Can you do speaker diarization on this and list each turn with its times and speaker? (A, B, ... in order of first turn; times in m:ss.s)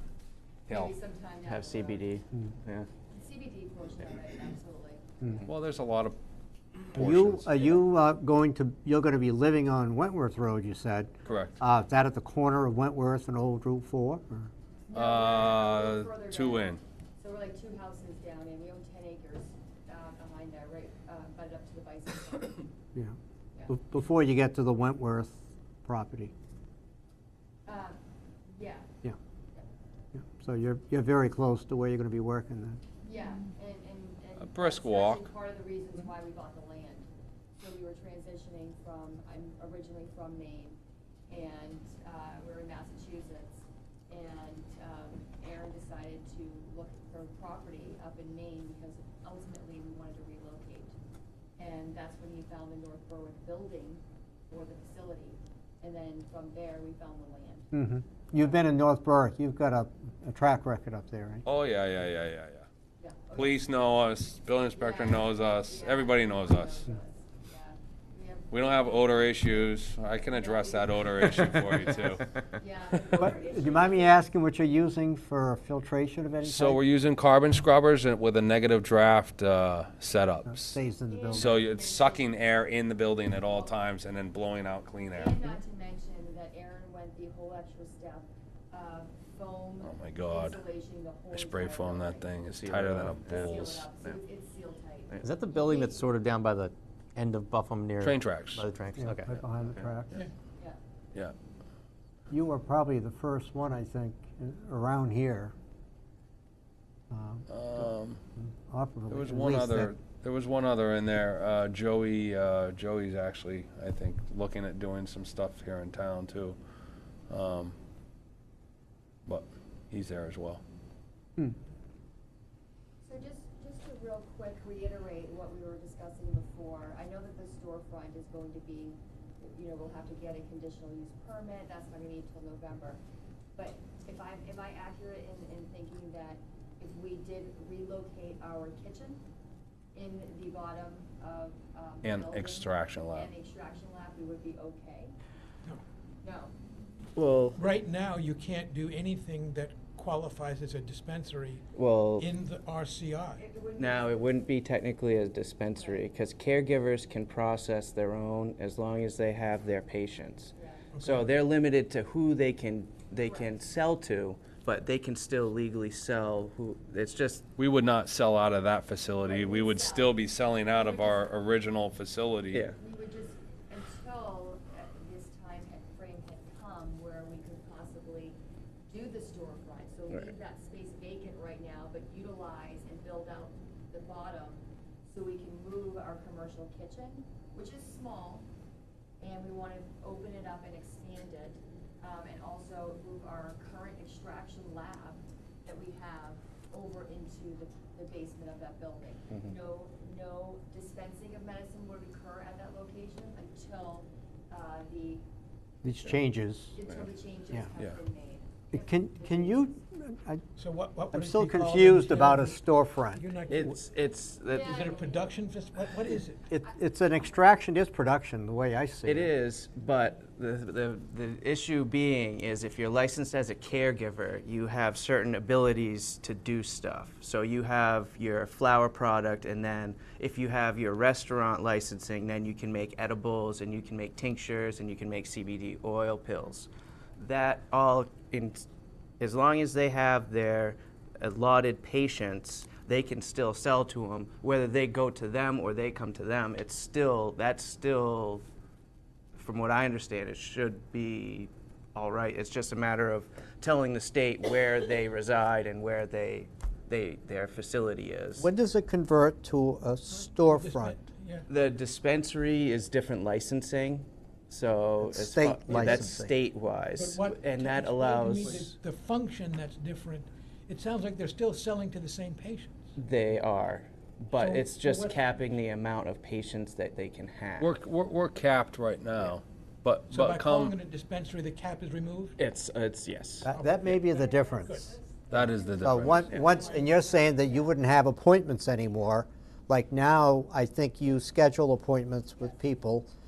0:00.7-0:00.9 A
0:00.7-0:02.1 B
0:01.4-0:02.9 C
0:03.1-0:05.5 B
0:05.5-0:06.2 A
0:06.9-0:07.7 A
0:07.0-0:14.5 D
0:11.2-0:11.5 B
0:11.2-0:11.6 A
0:14.9-0:22.7 B
0:14.9-0:16.8 A
0:23.7-0:26.3 D
0:27.6-0:28.9 B
0:30.1-0:32.8 D
0:33.0-0:50.9 B
0:34.4-0:35.3 A
0:51.6-0:57.7 B
0:57.7-1:01.4 D
1:01.5-1:02.6 A
1:03.0-1:03.6 B
1:03.4-1:06.8 A
1:04.7-1:09.7 B
1:08.5-1:12.2 A
1:10.2-1:14.2 B
1:13.2-1:16.8 D
1:16.4-1:20.8 A
1:20.5-1:21.5 D
1:21.1-1:22.6 B
1:21.3-1:25.4 A
1:23.4-1:23.8 B
1:25.1-1:32.3 B
1:29.8-1:30.6 A
1:31.3-1:33.8 A
1:32.4-1:34.2 C
1:33.2-1:36.0 B
1:35.2-1:40.1 E
1:38.0-1:38.6 A
1:39.0-1:40.1 D
1:42.3-1:45.5 D
1:47.1-1:50.0 D
1:47.5-1:48.2 A
1:49.1-1:56.6 A
1:57.3-1:57.7 A
1:59.2-2:00.6 A
2:03.0-2:13.0 B
2:13.6-2:19.2 B
2:19.9-2:25.1 B
2:22.0-2:23.3 A
2:26.2-2:26.5 B
2:27.2-2:27.6 C
2:27.6-2:31.6 F
2:31.7-2:32.3 C
2:32.2-2:33.4 F
2:33.3-2:34.5 B
2:33.8-2:47.4 C
2:35.8-2:36.0 B
2:40.5-2:40.9 B
2:40.9-2:41.2 F
2:43.2-2:43.6 B
2:47.6-2:52.6 A
2:49.2-2:51.4 B
2:52.5-2:52.8 C
2:52.7-2:58.4 B
2:58.9-3:08.5 B
3:09.2-3:25.2 B
3:25.8-3:26.8 D
3:26.7-3:29.8 B
3:28.7-3:30.4 D
3:30.6-3:33.8 F
3:31.1-3:33.2 D
3:33.5-3:34.8 C
3:34.4-3:35.3 B
3:34.6-3:36.4 F
3:36.5-3:39.3 D
3:39.0-3:58.6 C
3:59.2-4:08.4 C
4:09.3-4:18.5 C
4:18.4-4:21.0 D
4:20.4-4:21.5 F
4:21.5-4:28.7 C
4:25.0-4:26.3 D
4:26.9-4:33.0 F
4:33.0-4:37.8 C
4:34.3-4:35.3 F
4:37.6-4:40.7 A
4:40.1-4:42.4 F
4:42.4-4:43.5 C
4:43.4-4:45.5 F
4:43.4-4:53.1 D
4:44.5-4:47.6 B
4:45.6-4:46.2 A
4:46.1-4:46.9 F